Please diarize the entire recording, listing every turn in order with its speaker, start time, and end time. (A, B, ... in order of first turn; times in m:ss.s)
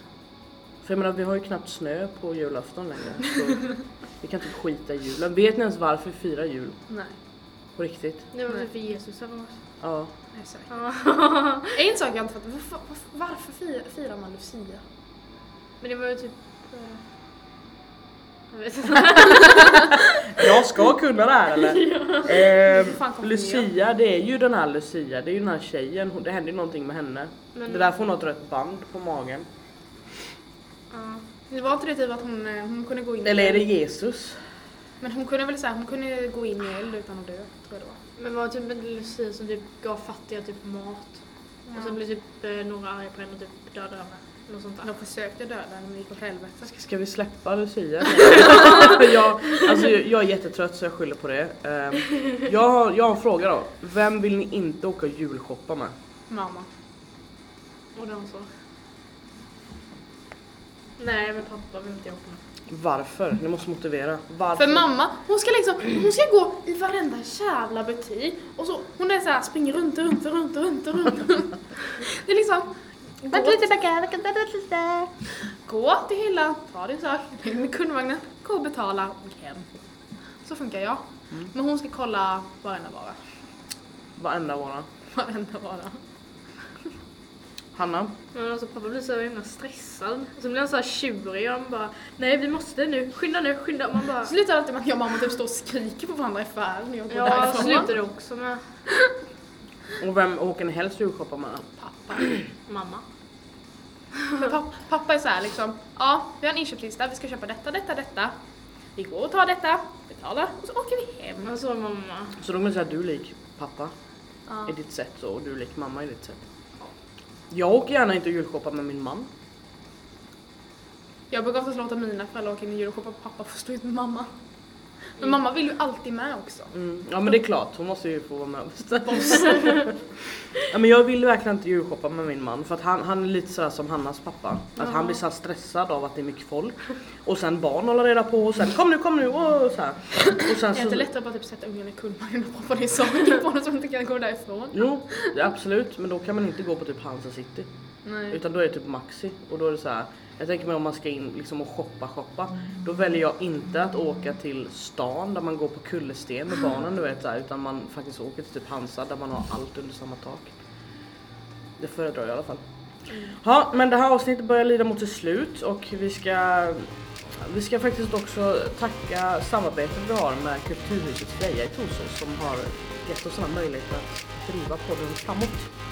0:00.8-0:06.8 A
0:06.9-0:07.2 B
0:07.8-0:08.3 A
0:08.3-0:09.6 C
0:09.8-0:10.1 A
0:10.3-0:10.7 B
0:10.7-0:11.8 C
0:11.7-0:14.8 B
0:15.8-0:17.0 C
0:18.5-0:20.2 C
0:20.2-0:29.5 A
0:21.6-0:22.4 C
0:22.4-0:23.7 B
0:27.6-0:27.9 C
0:30.9-0:31.2 C
0:31.5-0:33.7 B
0:33.2-0:34.4 A
0:35.0-0:38.0 B
0:38.2-0:41.2 C
0:41.7-0:42.0 B
0:41.7-0:44.9 C
0:44.8-0:46.7 B
0:46.6-0:55.9 A
0:56.3-0:56.7 B
0:58.0-0:58.5 C
1:01.0-1:02.4 C
1:02.7-1:04.9 A
1:04.6-1:12.7 B
1:13.2-1:14.0 B
1:15.6-1:19.7 B
1:20.4-1:23.2 B
1:24.2-1:24.9 A
1:25.1-1:26.0 B
1:27.7-1:28.2 A
1:28.3-1:34.3 C
1:34.2-1:38.0 B
1:37.1-1:38.6 C
1:40.0-1:41.7 A
1:41.8-1:42.4 B
1:42.7-1:43.0 C
1:44.3-1:48.3 B
1:49.0-1:51.5 B
1:51.4-1:52.4 C
1:52.4-1:53.9 A
1:54.5-1:54.8 B
1:54.7-1:56.4 A
1:57.5-1:59.3 A
2:01.3-2:04.3 B
2:05.2-2:06.7 B
2:06.7-2:10.0 A
2:10.6-2:21.1 A
2:20.7-2:25.4 B
2:24.7-2:27.7 A
2:28.0-2:28.4 B
2:28.3-2:40.5 A
2:41.8-2:42.6 A
2:43.4-2:55.7 A